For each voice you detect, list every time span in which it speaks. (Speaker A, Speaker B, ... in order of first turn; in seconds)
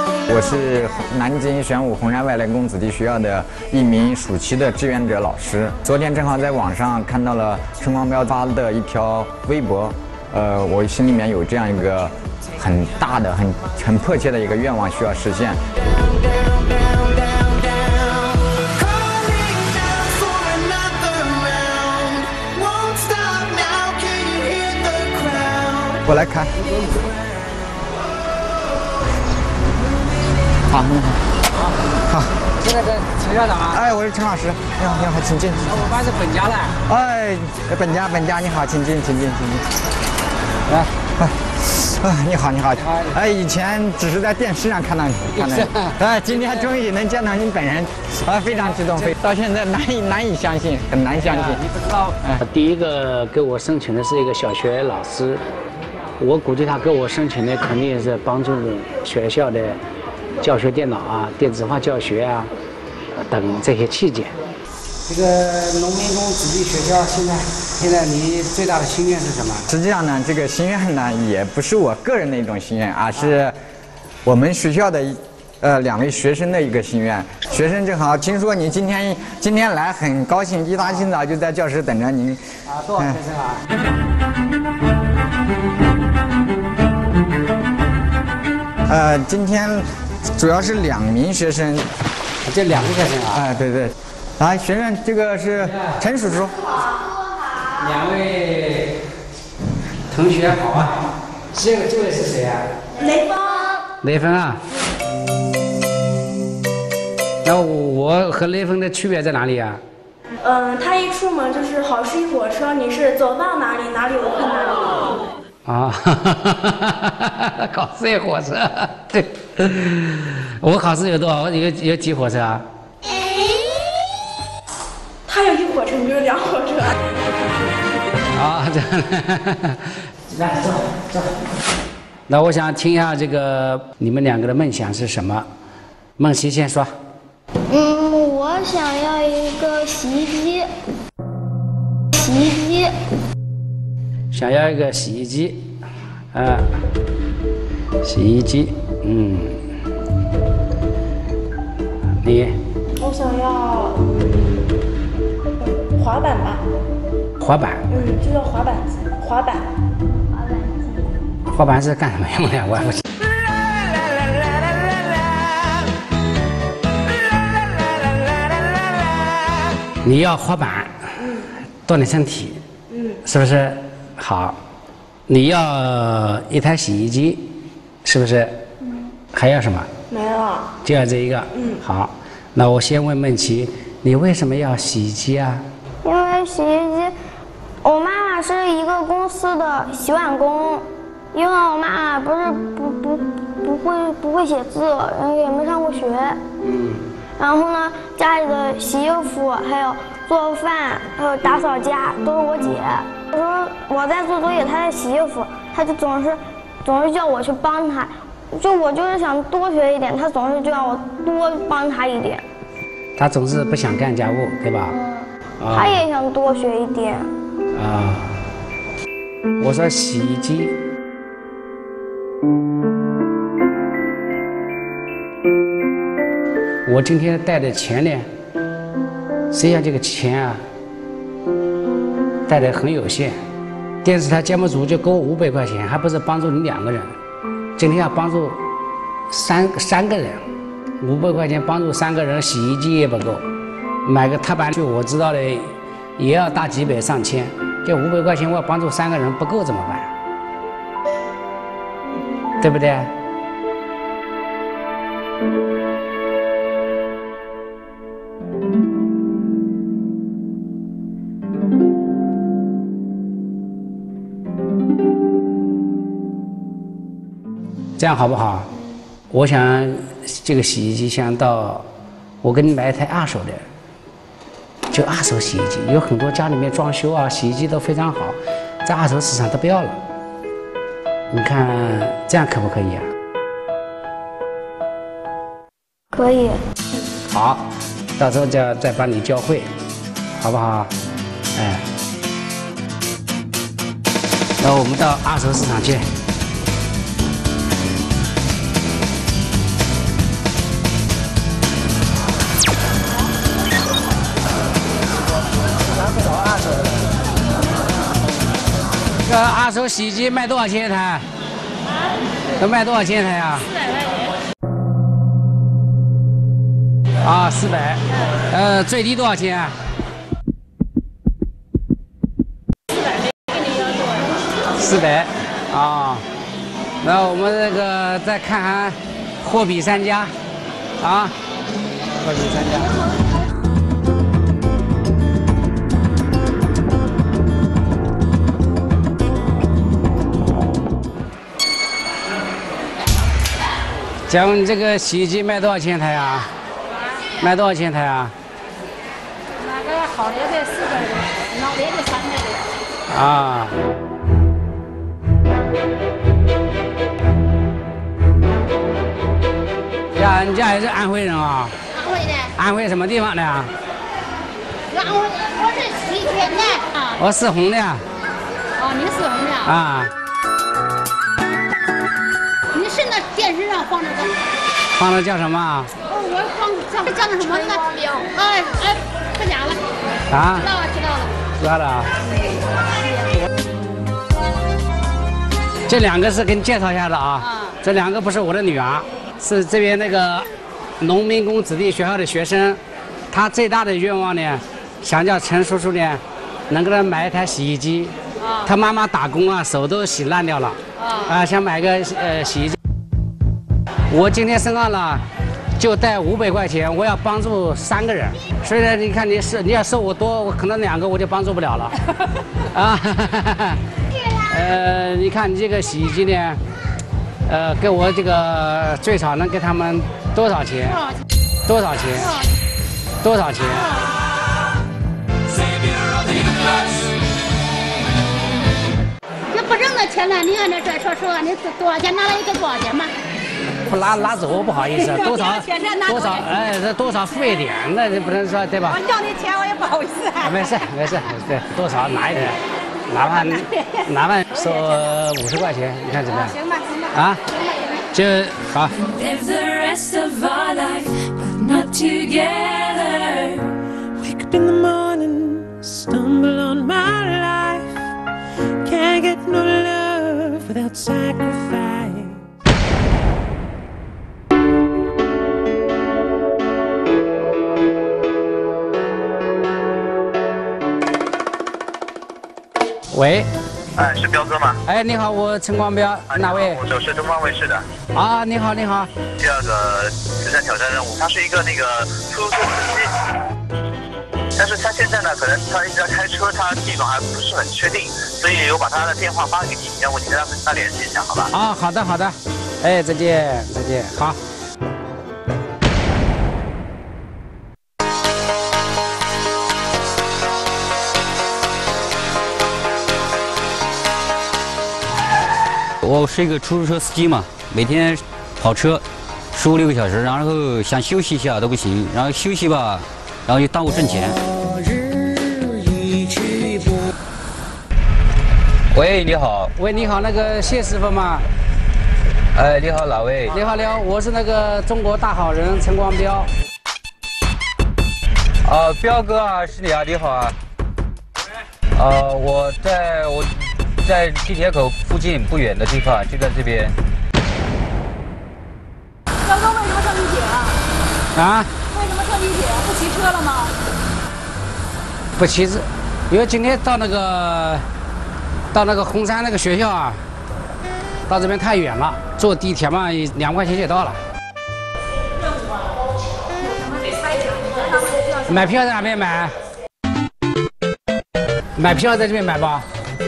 Speaker A: 0.3-15.6, 26.0-26.5, 30.7-31.2, 33.7-35.7, 36.9-39.6, 41.2-51.6, 69.7-73.5, 74.2-82.4, 88.9-89.8, 90.3-91.9, 93.3-96.6
Speaker B: 26.6-26.9, 32.6-33.8, 35.6-36.8, 42.8-43.2, 45.3-46.6, 48.7-49.1, 51.2-55.4, 56.2-59.8, 60.4-62.5, 63.2-64.3, 65.1-69.7, 80.8-81.0, 82.7-83.6, 92.5-93.4, 95.6-96.0, 97.8-98.9, 100.1-102.8, 104.0-104.6, 107.4-109.8, 115.7-122.6, 128.3-131.3, 132.3-135.4, 136.2-136.9, 144.3-145.7, 146.3-146.7, 148.0-149.6, 152.2-152.5, 157.4-157.8, 161.5-163.0, 170.0-170.9, 171.8-172.6, 173.2-174.6, 175.3-177.5, 178.0-178.6, 179.3-179.9, 180.8-185.6, 196.6-197.1, 213.2-214.9, 215.6-216.0, 217.7-218.4, 219.6-220.7, 226.8-228.3, 229.5-230.6, 232.5-233.4, 234.0-237.2, 237.8-238.6, 239.3-240.4, 241.0-243.4, 244.1-250.1, 252.6-253.1, 268.0-268.7, 269.3-271.9, 272.4-273.6, 274.9-280.0, 281.3-283.1, 287.3-287.6, 288.2-289.7, 290.4-290.9, 291.5-291.8, 294.6-296.1, 306.2-306.8, 309.2-311.2, 312.6-313.7, 317.2-319.7, 324.8-326.2, 327.0-330.3, 331.0-331.3, 332.2-332.9, 344.3-346.5, 347.4-348.3, 353.1-353.7, 360.1-361.7, 362.6-363.7, 367.2-368.0, 369.6-370.1, 374.9-375.9, 380.3-380.7, 381.6-382.1, 385.9-390.5, 391.0-392.8, 393.3-402.8, 404.1-405.2, 405.8-412.0, 412.7-413.8, 414.5-416.6, 417.5-421.0, 421.6-422.3, 423.2-423.9, 433.8-439.0, 440.4-442.6, 443.1-446.6, 447.1-447.4, 448.1-448.9, 473.1-473.5, 474.9-476.8, 478.1-479.1, 491.5-494.4, 519.8-521.4, 523.5-526.5, 541.3-541.7, 545.4-547.8, 548.7-550.2, 551.3-554.2, 558.5-559.5, 561.8-562.9
Speaker C: 103.0-103.7, 110.4-115.2, 125.3-127.0, 153.0-154.2, 155.6-156.6, 157.9-159.7, 172.9-173.2, 180.1-180.7, 181.5-181.8
Speaker D: 137.7-140.7, 142.1-142.9, 186.0-187.1, 187.8-196.4, 197.4-212.4, 214.9-217.3, 286.1-286.6
Speaker E: 349.6-352.7, 361.9-362.5, 364.9-367.2, 368.8-369.7, 372.7-374.4, 376.1-379.8, 380.6-381.3, 387.4-387.7, 398.4-398.7, 401.0-401.3, 429.5-433.1, 434.9-436.5, 438.8-440.7, 443.1-443.9, 444.5-445.0, 446.3-447.2, 539.4-540.8, 541.9-543.7, 556.7-558.6
Speaker F: 449.2-453.7, 454.2-458.0, 458.8-462.5
Speaker G: 474.0-474.8, 476.3-477.8, 479.4-483.1, 484.6-491.5
Speaker H: 506.0-514.4, 518.9-519.7, 522.5-523.5, 528.6-530.5, 532.0-536.9